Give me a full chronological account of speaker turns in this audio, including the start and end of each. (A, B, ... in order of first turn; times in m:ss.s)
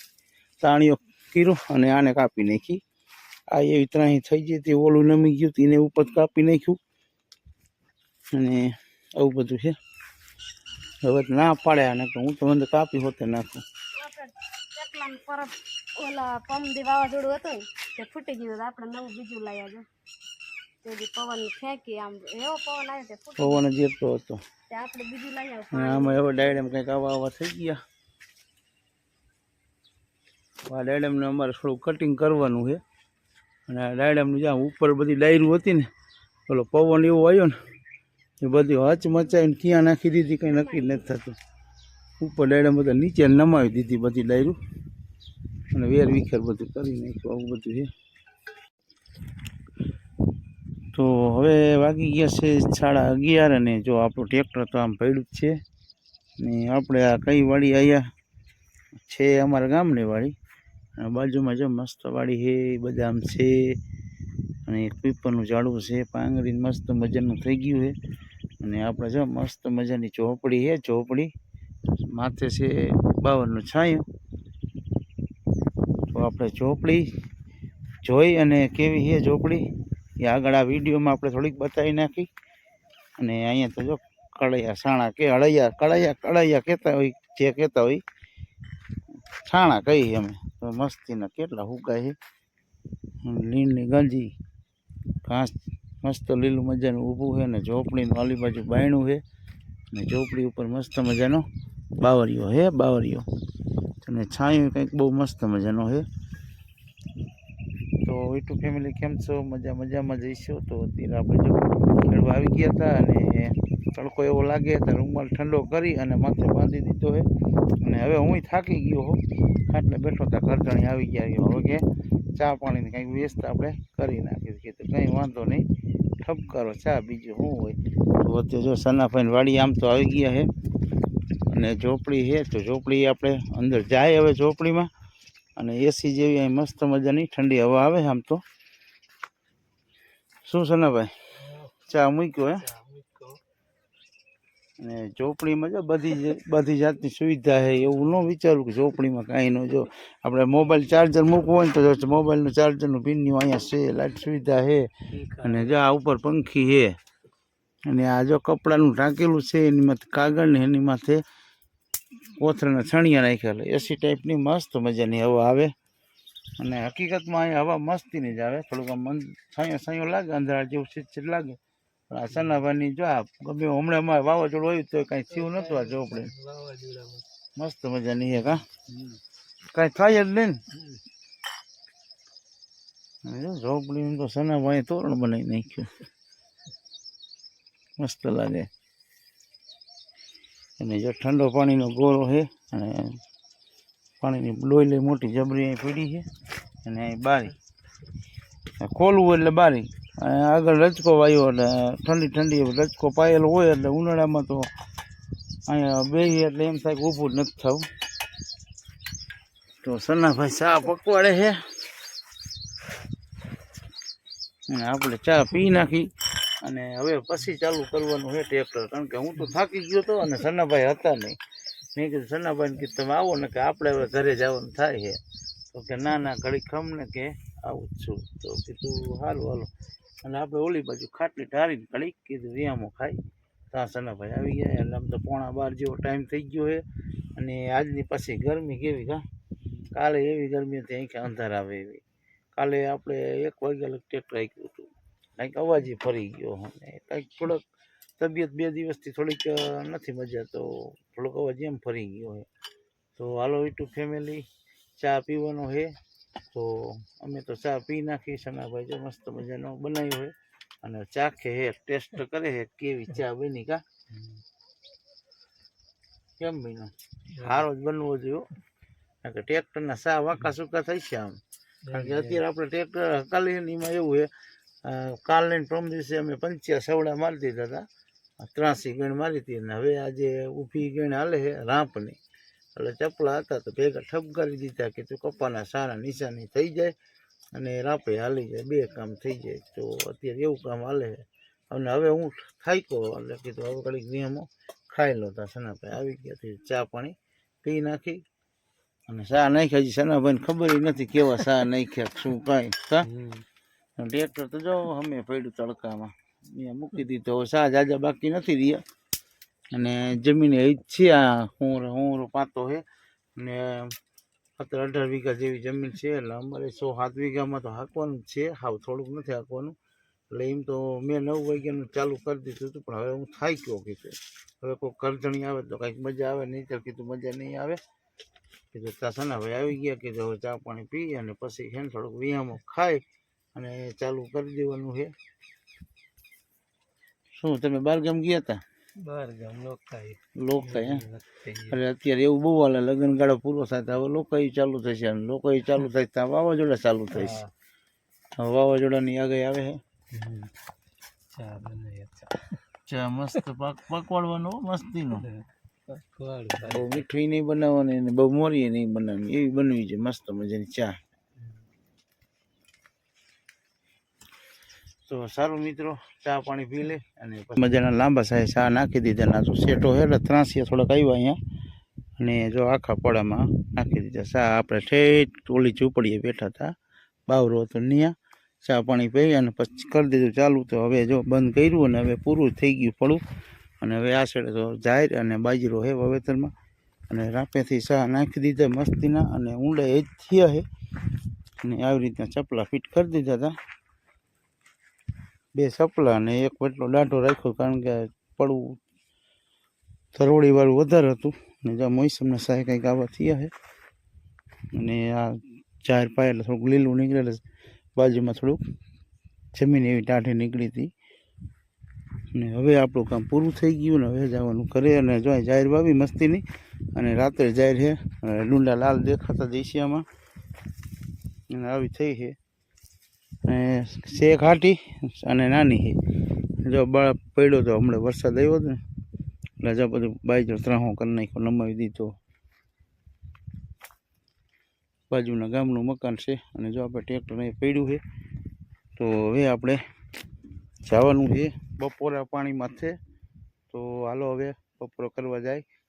0:00.6-0:02.8 A
0:03.5-0:06.8 A
0:08.3-0:09.8 A
0:11.0-0:13.6 A
0:14.0-0:19.8 B
0:20.8-0:23.7 B
0:23.4-0:24.4 A
0:24.7-0:26.7 B
0:25.7-0:27.8 A
0:30.7-0:32.8 A
0:33.7-0:35.9 A
0:36.5-0:37.5 A
0:38.4-0:41.4 A
0:40.4-0:41.0 B
0:42.2-0:44.6 A
0:45.7-0:47.9 A
0:50.9-0:55.5 A
0:56.4-0:58.0 A
0:59.0-1:00.3 A
1:01.0-1:03.8 A
1:04.7-1:07.9 A
1:08.6-1:11.3 A
1:11.9-1:14.0 A
1:16.1-1:17.1 A
1:18.0-1:19.7 A
1:20.2-1:22.3 A
1:23.2-1:28.0 A
1:29.4-1:32.2 A
1:33.2-1:34.3 A
1:35.2-1:39.2 A
1:39.9-1:41.4 A
1:42.0-1:43.2 A
1:44.0-1:46.0 A
1:48.0-1:57.3 A
1:57.8-2:05.6 A
2:06.2-2:10.5 A
2:11.5-2:14.9 A
2:15.6-2:18.4 A
2:20.4-2:22.7 A
2:24.8-2:37.0 A
2:37.8-2:41.2 A
2:42.3-2:45.7 A
2:46.6-2:51.6 A
2:52.1-2:56.3 A
2:56.0-2:57.0 C
2:57.6-2:58.6 A
2:59.7-3:00.6 A
3:03.2-3:05.9 A
3:08.0-3:08.7 A
3:10.8-3:13.2 A
3:14.2-3:16.2 A
3:16.8-3:17.6 A
3:18.8-3:24.7 A
3:25.6-3:27.8 A
3:29.8-3:31.6 A
3:34.7-3:41.4 A
3:41.9-3:49.7 A
3:50.2-3:53.2 A
3:53.7-3:56.8 A
3:57.4-3:59.2 A
3:59.9-4:02.0 A
4:02.6-4:07.6 A
4:08.2-4:12.5 A
4:13.2-4:14.4 A
4:15.0-4:15.9 A
4:16.5-4:23.8 A
4:26.4-4:28.5 A
4:29.2-4:34.3 A
4:31.9-4:32.2 C
4:34.8-4:37.8 A
4:38.4-4:42.2 A
4:42.8-4:46.9 A
4:47.5-4:58.2 A
4:59.1-5:03.1 A
5:04.0-5:08.8 A
5:09.7-5:12.8 A
5:13.4-5:14.0 A
5:14.6-5:19.7 A
5:20.3-5:27.8 A
5:28.7-5:33.0 A
5:33.5-5:35.1 A
5:37.3-5:38.6 A
5:39.0-5:40.2 C
5:40.4-5:41.1 A
5:41.0-5:41.7 C
5:41.6-5:47.4 A
5:48.4-5:49.8 A
5:50.1-5:50.5 C
5:51.3-5:52.4 C
5:52.8-5:55.3 A
5:56.1-5:56.5 C
5:56.6-6:01.0 A
6:05.1-6:11.4 A
6:12.2-6:16.7 A
6:17.3-6:23.2 A
6:23.8-6:26.5 A
6:27.1-6:30.6 A
6:31.6-6:33.6 A
6:35.5-6:38.8 A
6:40.1-6:43.5 A
6:44.7-6:47.4 A
6:48.0-6:48.6 A
6:49.5-6:50.9 A
6:52.3-7:00.0 A
7:01.5-7:02.4 A
7:03.4-7:06.0 A
7:06.6-7:08.8 A
7:09.6-7:12.1 A
7:15.1-7:18.0 A
7:19.0-7:19.8 A
7:20.8-7:22.9 A
7:23.7-7:25.6 A